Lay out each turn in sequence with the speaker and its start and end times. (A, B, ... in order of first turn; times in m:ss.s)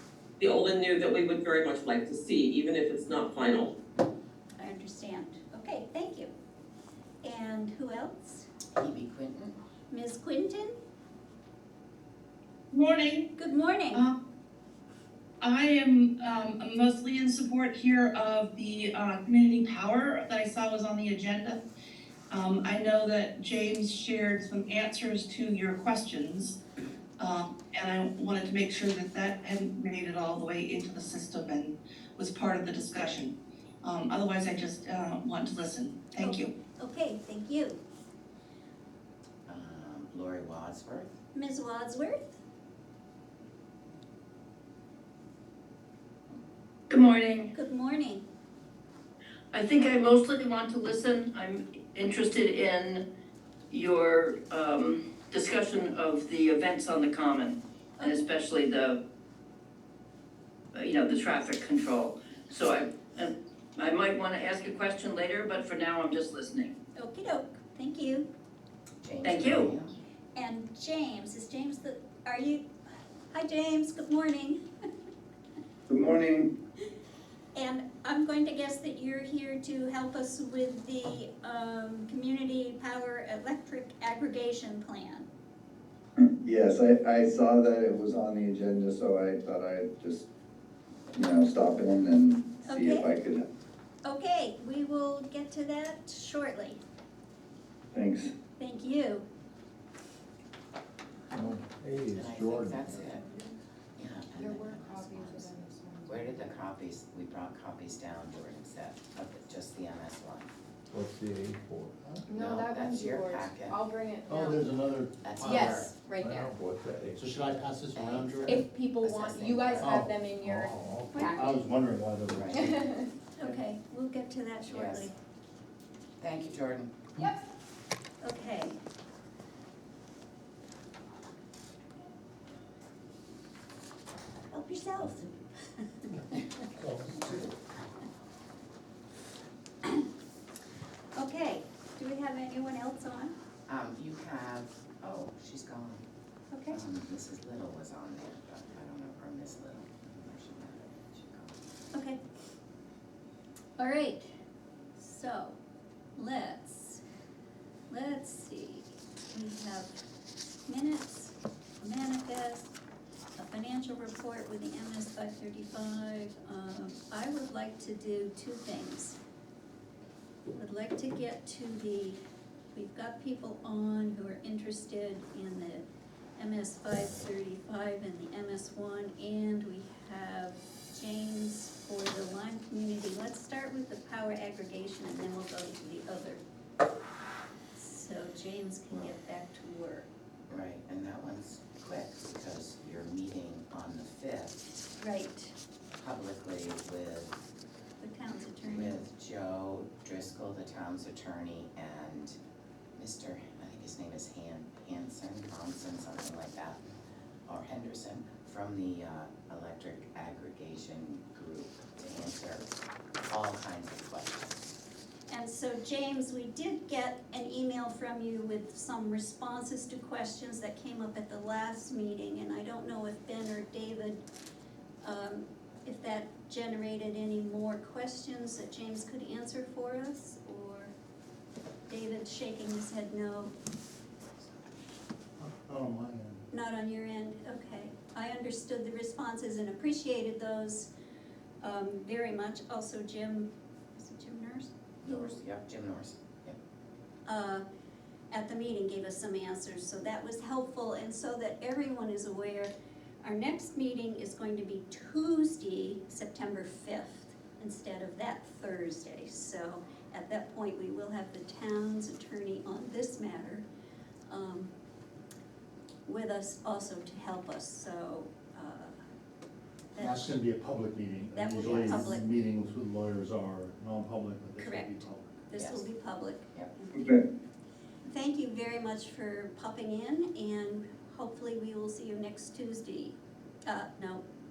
0:00.4-0:03.7 A
0:04.6-0:06.3 B
0:07.2-0:08.4 B
0:08.7-0:09.6 C
0:09.9-0:10.7 B
0:12.7-0:13.3 D
0:13.4-0:14.0 B
0:15.4-0:21.6 D
0:22.3-0:26.6 D
0:27.2-0:36.5 D
0:36.2-0:37.8 B
0:39.5-0:41.2 C
0:41.3-0:42.4 B
0:46.9-0:47.5 E
0:47.5-0:48.2 B
0:49.5-0:53.0 E
0:53.7-0:59.0 E
0:58.0-0:58.2 B
1:00.7-1:06.7 E
1:07.0-1:08.3 B
1:09.0-1:09.9 C
1:09.2-1:09.7 E
1:10.4-1:12.7 B
1:13.3-1:14.6 B
1:15.9-1:16.5 F
1:17.5-1:25.3 B
1:26.2-1:30.3 F
1:31.1-1:33.4 F
1:32.6-1:33.1 B
1:34.0-1:36.8 B
1:37.9-1:38.3 F
1:38.6-1:39.2 B
1:41.3-1:42.7 G
1:42.1-1:43.3 C
1:44.0-1:50.5 C
1:44.3-1:46.6 H
1:50.9-1:51.9 G
1:51.9-1:52.2 I
1:52.3-1:54.8 H
1:52.3-1:53.8 C
1:54.3-1:58.7 I
1:55.2-1:56.0 C
1:55.4-1:56.5 H
1:56.2-1:57.4 G
1:57.9-2:00.0 C
1:58.4-2:01.6 H
1:59.8-2:02.9 I
2:01.1-2:01.5 B
2:02.3-2:02.6 C
2:02.5-2:03.1 H
2:03.4-2:05.1 B
2:04.7-2:05.1 C
2:06.2-2:07.1 C
2:08.2-2:08.8 B
2:14.5-2:15.8 B
2:16.7-2:17.5 I
2:21.1-2:23.3 B
2:23.7-2:26.0 C
2:26.5-2:26.8 B
2:26.7-2:31.9 C
2:31.9-2:32.2 B
2:33.8-2:34.3 B
2:35.0-2:35.6 B
2:36.2-2:37.0 B
2:37.9-2:39.9 B
2:40.7-2:42.7 B
2:43.4-2:49.2 B
2:50.5-2:52.2 B
2:52.7-2:55.8 B
2:56.4-3:06.4 B
3:07.7-3:10.1 B
3:10.5-3:14.6 C
3:15.0-3:15.5 B
3:15.9-3:17.4 C
3:18.0-3:19.0 B
3:18.7-3:22.4 C
3:23.0-3:26.8 C
3:27.5-3:32.7 C
3:33.2-3:34.5 C
3:35.3-3:44.2 B
3:45.0-3:50.9 B
3:51.9-3:53.5 B
3:55.4-3:56.4 I
3:56.5-4:00.9 B
4:01.6-4:05.4 B
4:05.0-4:06.6 C
4:07.3-4:07.6 B
4:08.3-4:12.7 B
4:13.2-4:23.6 B
4:24.3-4:24.7 B
4:26.0-4:28.9 B
4:29.9-4:30.4 B
4:30.0-4:35.5 I
4:31.3-4:32.3 B
4:31.7-4:32.0 C
4:34.6-4:37.2 B
4:35.5-4:35.9 C
4:37.0-4:37.2 F
4:38.1-4:44.2 B